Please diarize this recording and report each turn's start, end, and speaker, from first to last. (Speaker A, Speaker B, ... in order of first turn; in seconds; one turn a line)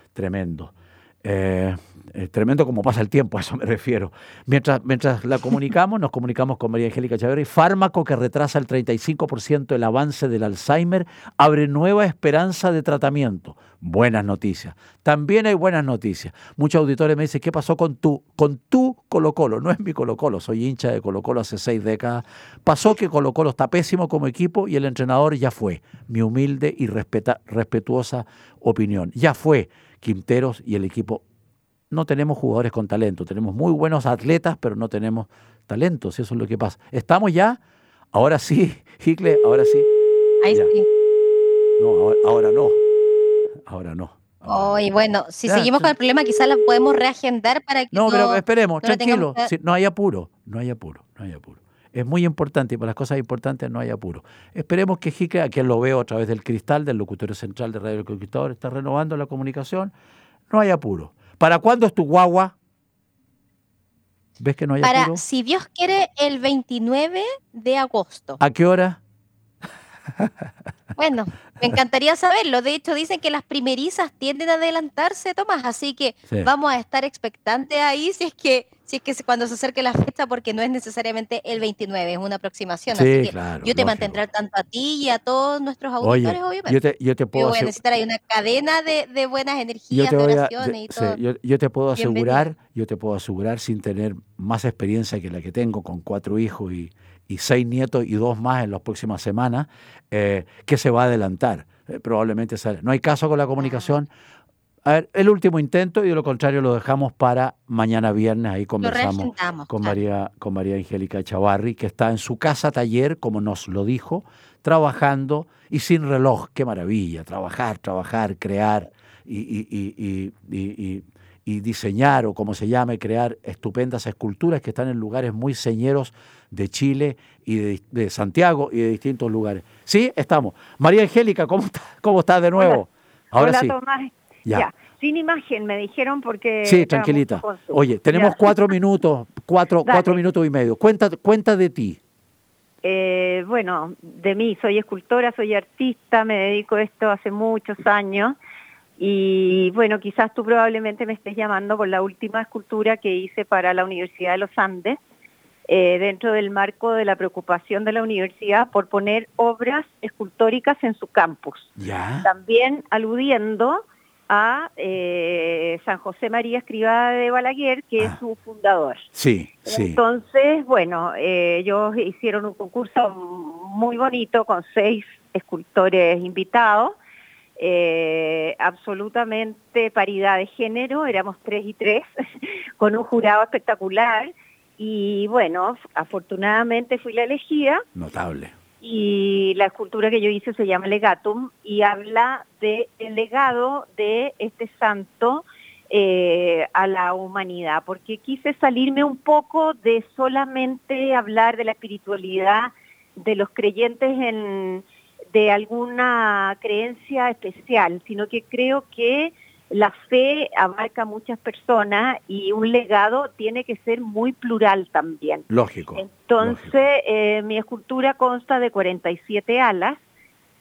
Speaker A: 0.1-31.2
Speaker A: 31.9-37.6
Speaker A: 38.1-39.9
Speaker B: 40.4-40.9
Speaker A: 41.8-42.8
Speaker A: 43.7-44.8
Speaker B: 44.5-49.5
Speaker A: 45.4-45.9
Speaker A: 47.9-59.9
Speaker A: 60.5-62.5
Speaker A: 64.4-65.2
Speaker B: 64.8-68.4
Speaker A: 68.4-69.0
Speaker B: 71.0-86.8
Speaker A: 82.9-84.2
Speaker A: 86.0-87.8
Speaker B: 87.3-91.2
Speaker A: 89.9-104.1
Speaker B: 92.0-92.5
Speaker A: 104.8-133.8
Speaker B: 108.8-110.0
Speaker C: 133.4-138.6
Speaker A: 136.6-142.0
Speaker C: 139.9-140.2
Speaker C: 142.8-148.4
Speaker C: 149.0-155.0
Speaker C: 155.7-161.7
Speaker A: 161.8-162.3
Speaker C: 162.2-169.1
Speaker A: 169.1-170.0
Speaker C: 169.7-176.9
Speaker C: 177.6-182.1
Speaker C: 182.8-187.8
Speaker A: 187.9-188.6
Speaker C: 188.8-220.0
Speaker A: 215.5-216.7